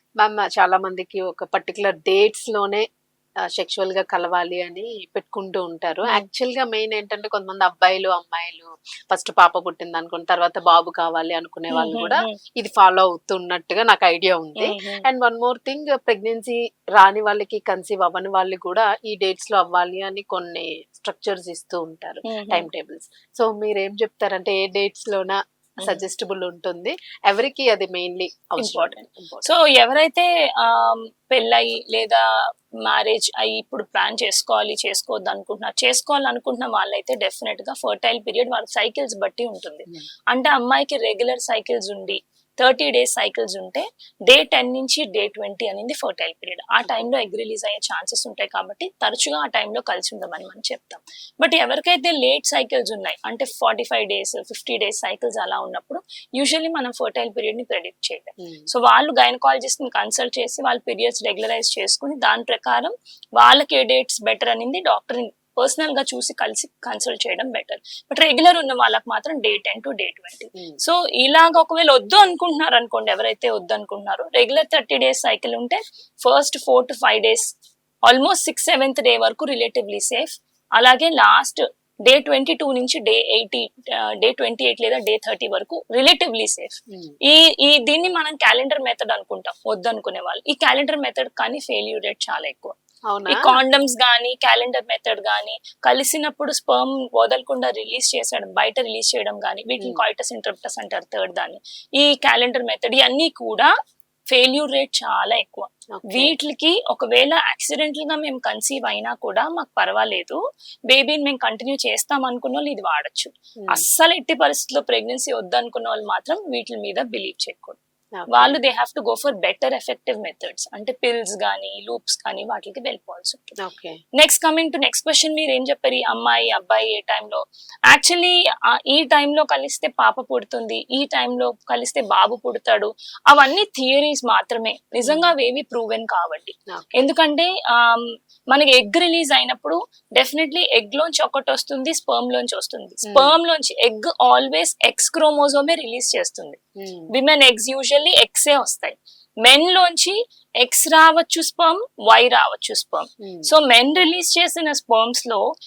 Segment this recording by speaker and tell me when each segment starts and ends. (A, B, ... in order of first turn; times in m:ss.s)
0:00.2-0:02.8 A
0:03.5-0:29.4 A
0:11.7-0:12.4 B
0:14.6-0:15.0 B
0:22.2-0:22.7 B
0:28.6-0:32.2 B
0:32.8-1:17.4 B
0:58.4-0:58.7 A
1:18.0-1:32.7 B
1:26.9-1:27.2 A
1:33.1-1:33.4 A
1:33.3-1:43.7 B
1:44.3-1:57.8 B
1:46.0-1:46.4 A
1:58.2-1:58.6 A
1:58.3-2:03.6 B
2:03.6-2:04.0 A
2:04.2-2:26.6 B
2:15.1-2:15.3 A
2:16.7-2:17.1 A
2:23.1-2:23.4 A
2:26.8-2:27.1 A
2:27.1-2:35.4 B
2:33.2-2:34.1 A